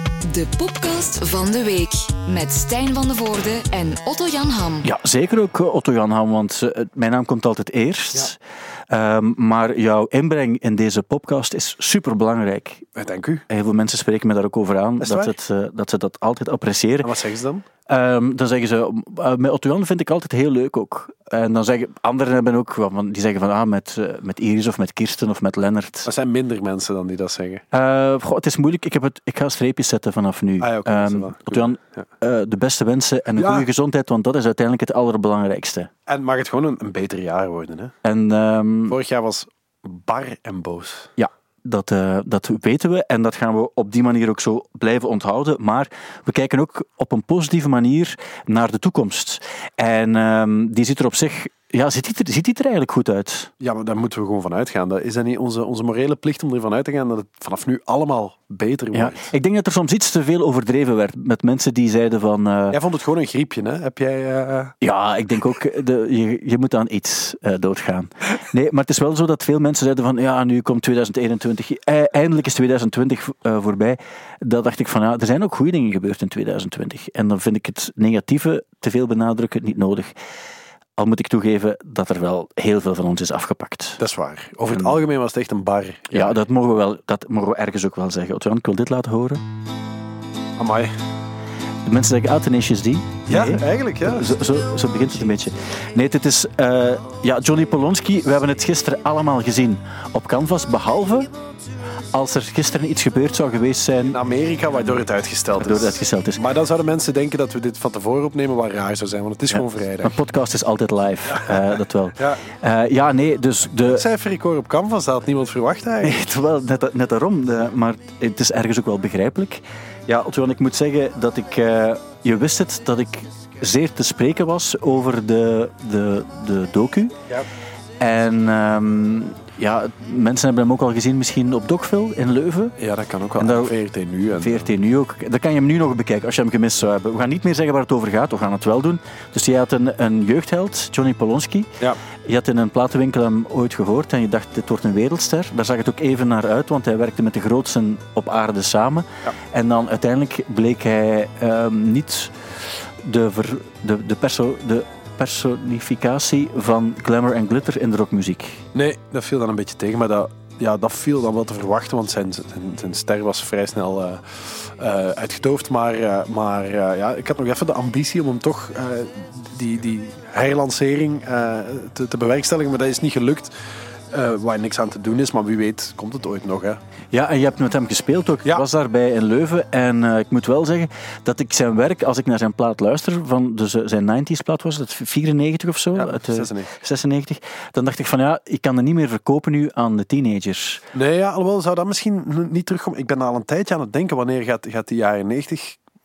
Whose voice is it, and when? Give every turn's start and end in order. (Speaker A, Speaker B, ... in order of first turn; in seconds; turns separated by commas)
Speaker A: 0.2-4.9, Speaker B: 4.8-8.4, Speaker B: 8.9-12.8, Speaker C: 12.9-13.4, Speaker B: 13.5-17.1, Speaker C: 15.0-15.4, Speaker C: 17.0-17.7, Speaker B: 17.9-26.1, Speaker C: 26.1-27.6, Speaker B: 27.7-35.9, Speaker C: 30.6-32.1, Speaker C: 33.4-33.7, Speaker C: 36.1-38.0, Speaker B: 38.0-39.0, Speaker C: 38.9-41.1, Speaker B: 41.2-53.5, Speaker C: 53.6-59.3, Speaker B: 58.9-62.8, Speaker C: 62.7-64.7, Speaker B: 64.8-80.2, Speaker B: 81.0-84.0, Speaker C: 84.0-86.4, Speaker B: 84.7-85.0, Speaker B: 86.1-89.4, Speaker C: 90.6-90.9, Speaker B: 91.9-101.3, Speaker C: 93.3-94.4, Speaker B: 102.1-104.2, Speaker C: 104.1-110.2, Speaker B: 105.6-106.4, Speaker B: 109.5-114.1, Speaker C: 111.3-112.4, Speaker C: 113.8-116.2, Speaker B: 116.0-127.2, Speaker B: 128.0-132.8, Speaker C: 132.8-134.7, Speaker B: 133.4-133.8, Speaker B: 134.3-141.7, Speaker B: 142.3-152.3, Speaker B: 153.0-158.6, Speaker C: 158.7-173.5, Speaker C: 174.1-176.8, Speaker B: 177.1-190.8, Speaker C: 185.9-186.7, Speaker C: 190.9-195.8